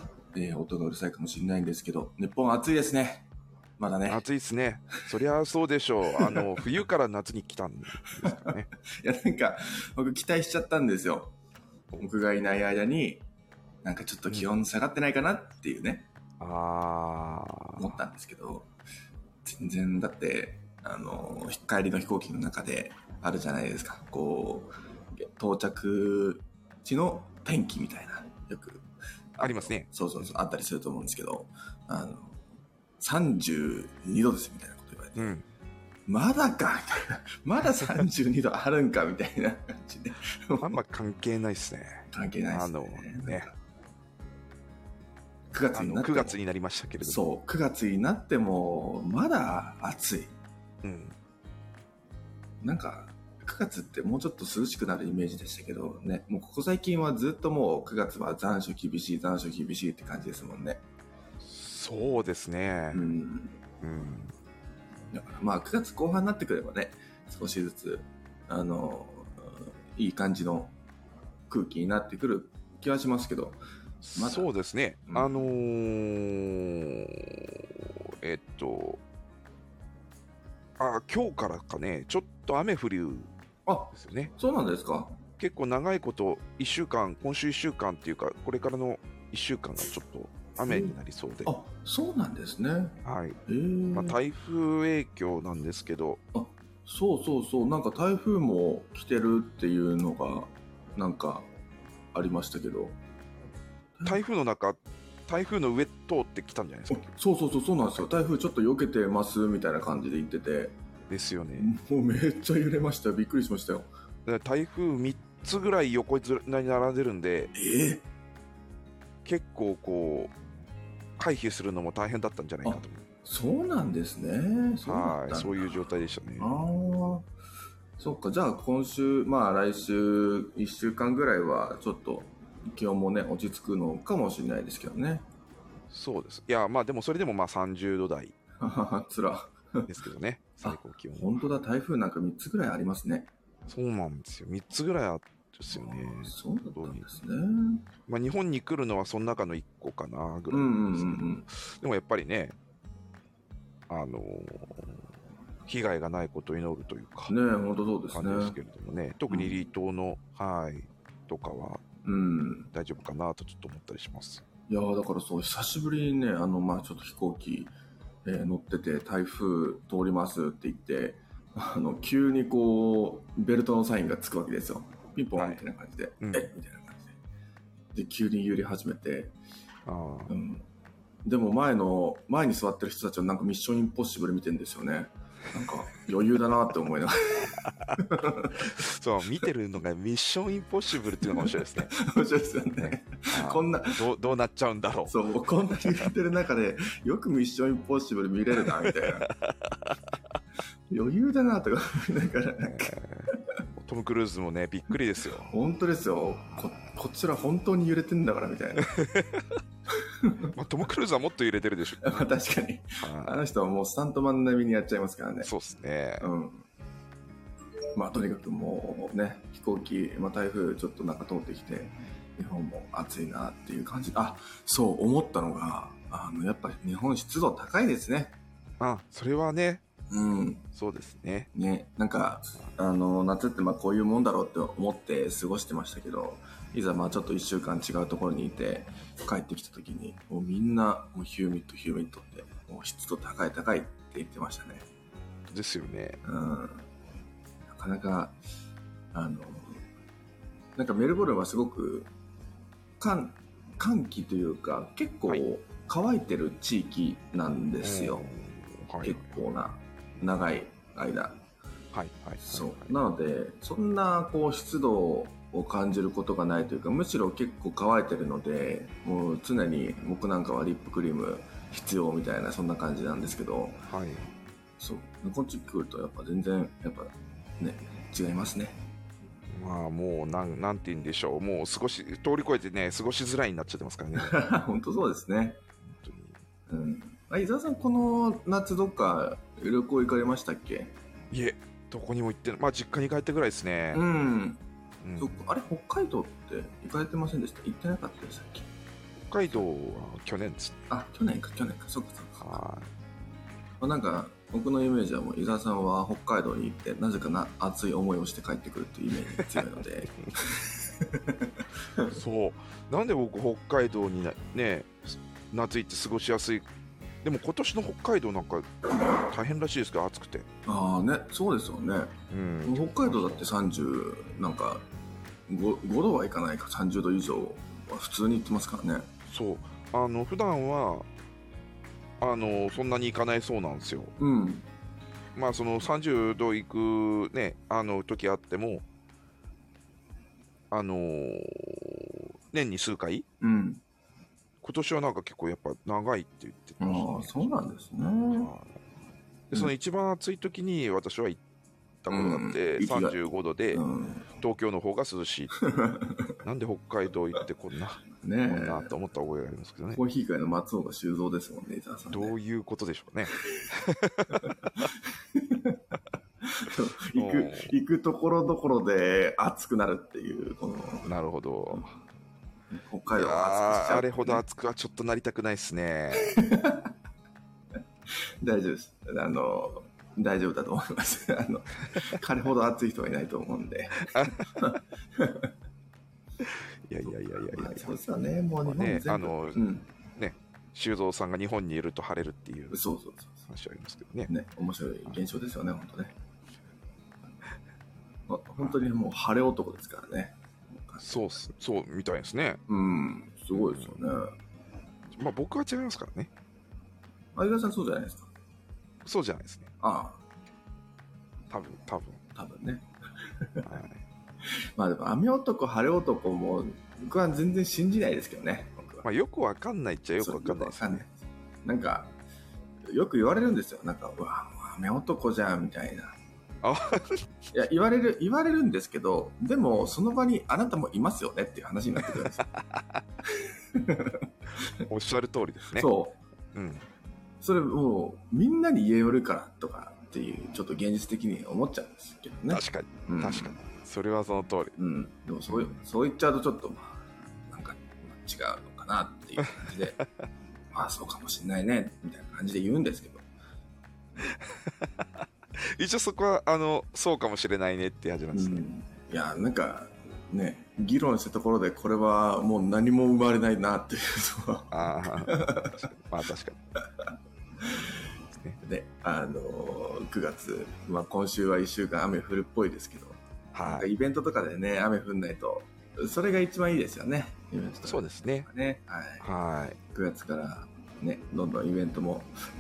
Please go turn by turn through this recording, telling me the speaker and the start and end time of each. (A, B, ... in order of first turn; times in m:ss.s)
0:00.3-0:03.3 A
0:03.8-0:04.2 A
0:04.1-0:08.7 B
0:06.1-0:06.6 A
0:08.0-0:11.3 A
0:12.0-0:13.2 A
0:13.8-0:16.1 A
0:16.4-0:17.9 B
0:17.8-0:18.7 A
0:19.4-0:32.4 A
0:29.4-0:30.3 B
0:33.0-0:35.3 A
0:35.2-0:35.4 B
0:36.1-0:40.8 A
0:40.6-0:43.5 B
0:42.1-0:43.6 A
0:45.5-0:46.4 A
0:45.7-0:47.2 B
0:47.0-0:50.3 A
0:50.8-0:51.2 B
0:52.6-1:00.8 A
1:01.4-1:03.1 B
1:02.9-1:03.6 A
1:03.8-1:04.3 B
1:05.1-1:10.7 A
1:11.5-1:13.6 A
1:14.0-1:19.0 B
1:14.2-1:14.5 A
1:15.1-1:15.3 A
1:20.8-1:23.3 B
1:23.7-1:25.2 A
1:23.9-1:24.3 B
1:25.4-1:31.5 B
1:30.6-1:30.9 A
1:31.4-1:34.2 A
1:33.0-1:33.4 B
1:33.9-1:36.2 B
1:36.3-1:41.5 A
1:42.1-1:43.0 A
1:44.0-1:44.2 A
1:44.0-1:47.1 B
1:46.9-1:50.8 A
1:47.8-1:48.3 B
1:51.1-1:51.7 B
1:51.6-1:53.9 A
1:54.2-1:57.5 B
1:57.6-1:58.0 A
1:59.2-2:00.3 B
2:01.2-2:03.0 B
2:02.6-2:05.8 A
2:04.8-2:06.5 B
2:06.4-2:07.3 A
2:08.0-2:15.2 A
2:15.9-2:18.4 B
2:18.6-2:19.9 A
2:19.9-2:21.4 B
2:20.6-2:23.3 A
2:23.7-2:27.1 B
2:25.7-2:27.9 A
2:28.1-2:32.6 B
2:30.5-2:31.5 A
2:33.9-2:35.0 B
2:35.7-2:37.3 B
2:37.3-2:38.6 A
2:38.1-2:41.8 B
2:39.3-2:39.6 A
2:42.0-2:42.7 A
2:42.7-2:44.4 B
2:44.7-2:47.7 A
2:48.3-2:57.2 A
2:56.2-2:56.5 B
2:57.9-2:59.3 A
2:59.9-3:00.3 B
3:00.3-3:00.7 A
3:01.2-3:08.8 A
3:07.6-3:08.0 B
3:08.6-3:11.9 B
3:11.2-3:14.0 A
3:12.8-3:15.2 B
3:15.1-3:19.3 A
3:18.7-3:20.2 B
3:20.9-3:23.6 A
3:22.6-3:25.5 B
3:25.5-3:28.9 A
3:28.8-3:29.4 B
3:30.0-3:30.5 A
3:30.5-3:32.3 B
3:32.0-3:35.5 A
3:33.0-3:33.4 B
3:35.4-3:36.3 B
3:36.2-3:36.7 A
3:38.0-3:48.4 A
3:48.8-3:49.8 B
3:50.1-3:50.6 A
3:50.8-3:51.5 B
3:51.5-4:04.9 A
4:05.5-4:06.2 B
4:06.2-4:06.8 A
4:07.7-4:08.4 A
4:09.1-4:09.8 A
4:10.8-4:12.1 A
4:13.0-4:18.3 A
4:17.8-4:19.4 B
4:19.0-4:21.4 A
4:21.9-4:22.9 B
4:22.4-4:33.8 A
4:33.9-4:34.3 B
4:34.8-4:38.8 A
4:39.5-4:44.4 B
4:44.2-4:45.6 A
4:45.9-4:46.4 B
4:46.7-4:50.9 A
4:51.3-4:54.0 B
4:53.9-4:54.6 A
4:55.0-4:55.4 B
4:55.2-4:58.7 A
4:59.2-5:00.8 B
5:00.9-5:02.4 A
5:02.4-5:02.9 B
5:03.8-5:12.2 A
5:12.1-5:16.7 B
5:17.2-5:20.5 B
5:20.7-5:24.8 A
5:22.3-5:23.5 B
5:25.5-5:29.1 A
5:29.3-5:31.1 B
5:32.2-5:34.1 B
5:34.2-5:34.7 A
5:35.4-5:38.8 B
5:40.7-5:43.3 B
5:43.4-5:43.8 A
5:44.6-5:47.6 B
5:46.8-5:48.5 A
5:48.3-5:48.7 B
5:49.5-5:51.4 B
5:52.0-5:53.8 B
5:52.1-5:54.2 A
5:54.4-5:55.5 B
5:55.6-5:56.4 A
5:56.4-6:00.0 B
5:58.2-5:58.9 A
6:00.0-6:02.4 A
6:02.1-6:04.9 B
6:03.4-6:03.7 A
6:04.3-6:05.8 A
6:06.4-6:11.1 A
6:07.2-6:07.7 B
6:11.1-6:11.9 B
6:12.7-6:14.4 A
6:13.1-6:16.4 B
6:16.2-6:16.9 A
6:18.4-6:25.5 A
6:26.4-6:28.0 B
6:27.1-6:29.9 A
6:28.6-6:29.6 B
6:30.2-6:32.8 B
6:32.7-6:33.4 A
6:33.5-6:34.3 B
6:34.3-6:36.1 A
6:38.3-6:41.2 A
6:41.0-6:42.6 B
6:42.7-6:44.3 A
6:43.5-6:44.0 B
6:45.1-6:46.3 B
6:47.4-6:48.3 A
6:49.0-6:49.7 B
6:49.8-6:50.2 A
6:51.5-6:52.2 B
6:52.4-6:53.7 A
6:53.6-6:54.0 B
6:54.8-6:59.1 A
6:59.0-7:01.0 B
7:00.2-7:02.1 A
7:02.9-7:06.2 A
7:06.6-7:07.3 B
7:07.5-7:12.5 A
7:12.1-7:13.0 B
7:13.3-7:14.8 A
7:14.9-7:15.9 B
7:15.8-7:16.2 A
7:16.5-7:16.9 B
7:17.4-7:23.6 A
7:22.5-7:24.8 B
7:24.8-7:30.0 A
7:25.5-7:25.7 B
7:29.6-7:30.0 B
7:30.7-7:33.2 A
7:34.2-7:38.6 B
7:38.3-7:45.9 A
7:44.7-7:46.6 B
7:48.6-7:59.2 A
7:53.5-7:53.9 B
7:57.8-7:58.5 B
7:59.2-7:59.8 B
7:59.9-8:02.3 A